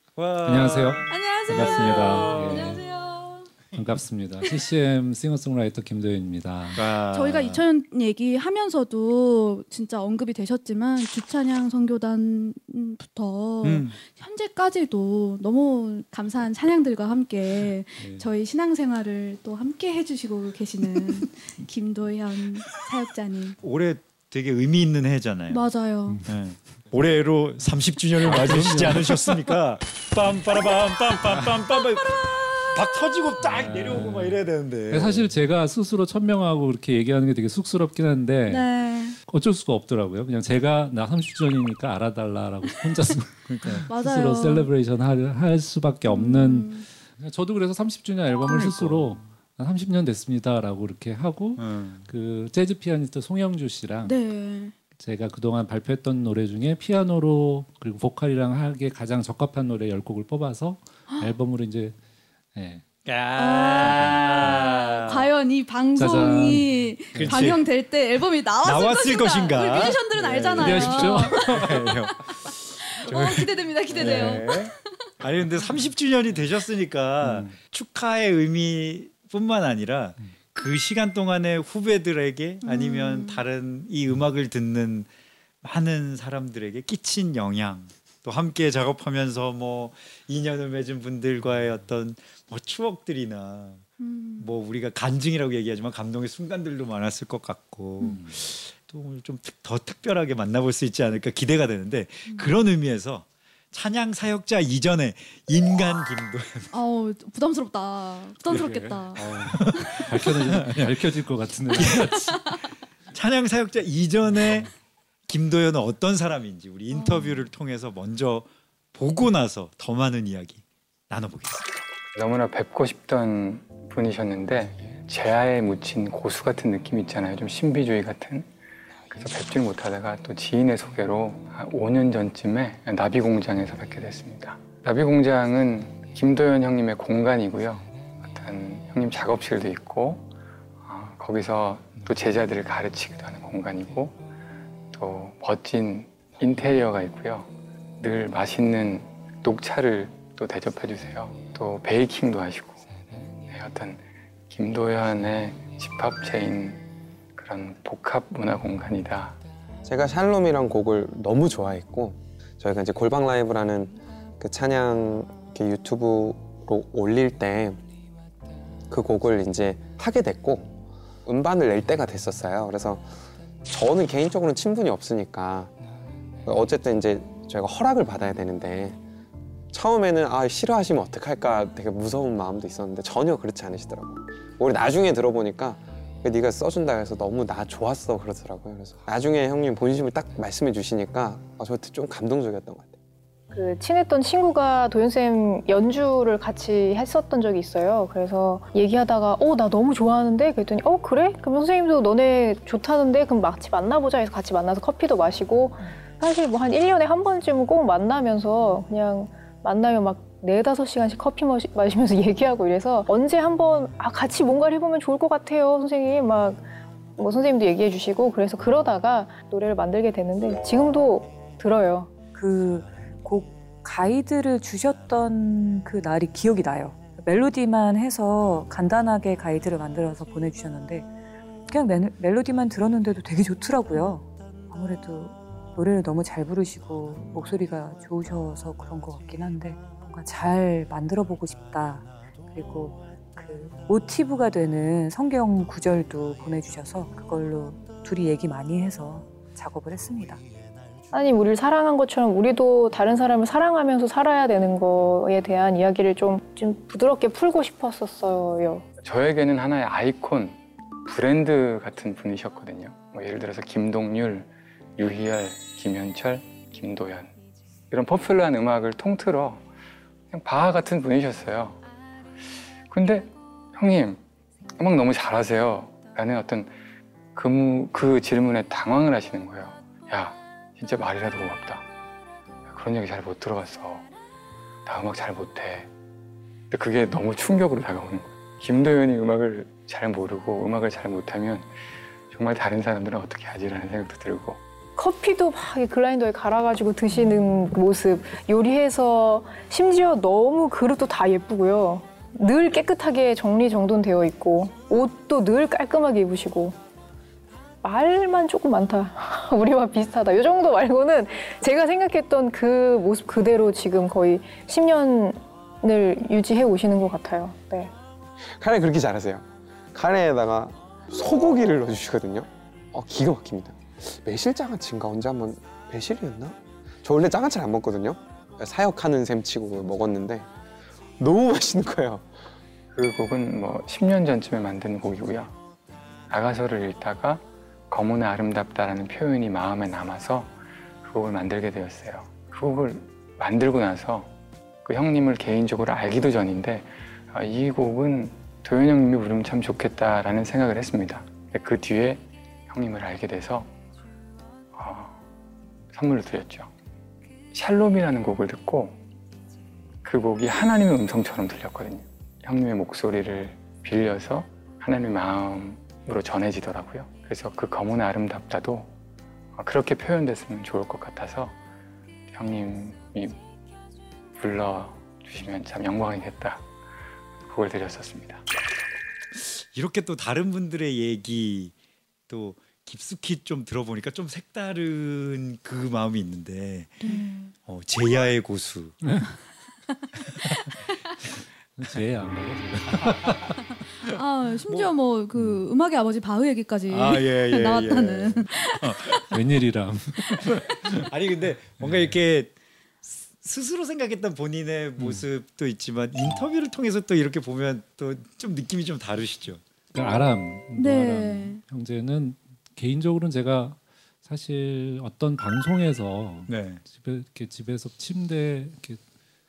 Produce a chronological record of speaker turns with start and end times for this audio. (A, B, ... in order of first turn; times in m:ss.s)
0:00.2-0:02.8 A
0:00.4-0:02.8 B
0:01.1-0:03.5 C
0:03.7-0:06.8 B
0:06.8-0:07.6 A
0:07.1-0:23.6 C
0:13.6-0:14.0 A
0:23.6-0:25.6 A
0:25.5-0:26.2 C
0:26.2-0:35.3 A
0:28.2-0:29.6 B
0:33.4-0:38.7 B
0:38.5-0:39.2 C
0:39.3-0:54.2 B
0:43.5-0:43.9 A
0:43.9-0:44.7 C
0:46.1-0:46.9 C
0:48.5-0:49.2 A
0:51.6-0:52.1 A
0:54.0-0:54.8 C
0:55.0-1:02.0 B
1:02.6-1:02.8 B
1:03.0-1:05.3 A
1:03.4-1:15.1 C
1:03.9-1:04.2 B
1:06.0-1:07.6 B
1:07.1-1:07.6 A
1:08.6-1:25.1 A
1:10.6-1:11.9 B
1:17.2-1:17.5 B
1:22.6-1:23.4 C
1:25.6-1:33.9 A
1:34.0-1:34.5 C
1:34.4-1:46.7 A
1:46.7-1:49.3 C
1:48.5-1:52.4 B
1:49.2-1:51.1 A
1:51.7-1:54.7 A
1:55.3-2:01.7 A
1:56.9-1:57.4 C
2:02.2-2:08.5 D
2:09.1-2:20.3 D
2:20.8-2:24.2 D
2:24.9-2:36.8 D
2:37.4-2:39.4 D
2:39.9-2:47.8 E
2:48.9-2:50.7 E
2:51.3-2:53.1 E
2:53.7-2:55.7 E
2:56.4-2:59.0 E
2:59.7-3:13.0 E
3:13.5-3:36.7 F
3:37.2-3:42.1 F
3:42.4-3:51.1 G
3:51.7-4:10.4 G
4:11.1-4:18.8 F
4:19.0-4:27.3 D
4:27.9-4:29.6 D
4:30.3-4:31.8 D
4:32.9-4:34.2 D
4:34.8-4:36.8 D
4:37.3-4:41.9 D
4:42.7-4:44.1 D
4:44.9-4:45.9 D
4:46.7-4:51.7 D
4:52.3-4:54.6 D
4:55.0-5:06.8 F
5:07.8-5:17.9 F
5:18.5-5:30.5 E
5:31.2-5:32.3 E
5:32.9-5:35.5 D
5:36.3-5:44.3 D
5:44.8-5:53.7 D
5:54.7-5:55.2 D
5:55.9-5:56.7 D
5:57.5-5:59.0 D
6:00.0-6:08.9 D
6:09.6-6:11.6 D
6:12.3-6:13.4 D
6:14.4-6:16.6 D
6:17.5-6:18.4 D
6:19.3-6:21.7 A
6:22.3-6:29.0 A
6:27.0-6:27.5 C
6:29.0-6:29.3 B
6:31.8-6:33.6 B
6:33.0-6:33.4 A
6:34.0-6:39.2 C
6:36.9-6:39.4 A
6:39.3-6:41.1 B
6:40.4-6:42.5 A
6:41.8-6:42.2 B
6:43.0-6:49.6 A
6:45.0-6:45.3 B
6:49.9-6:59.0 B
6:50.8-6:51.6 C
6:56.5-6:56.8 A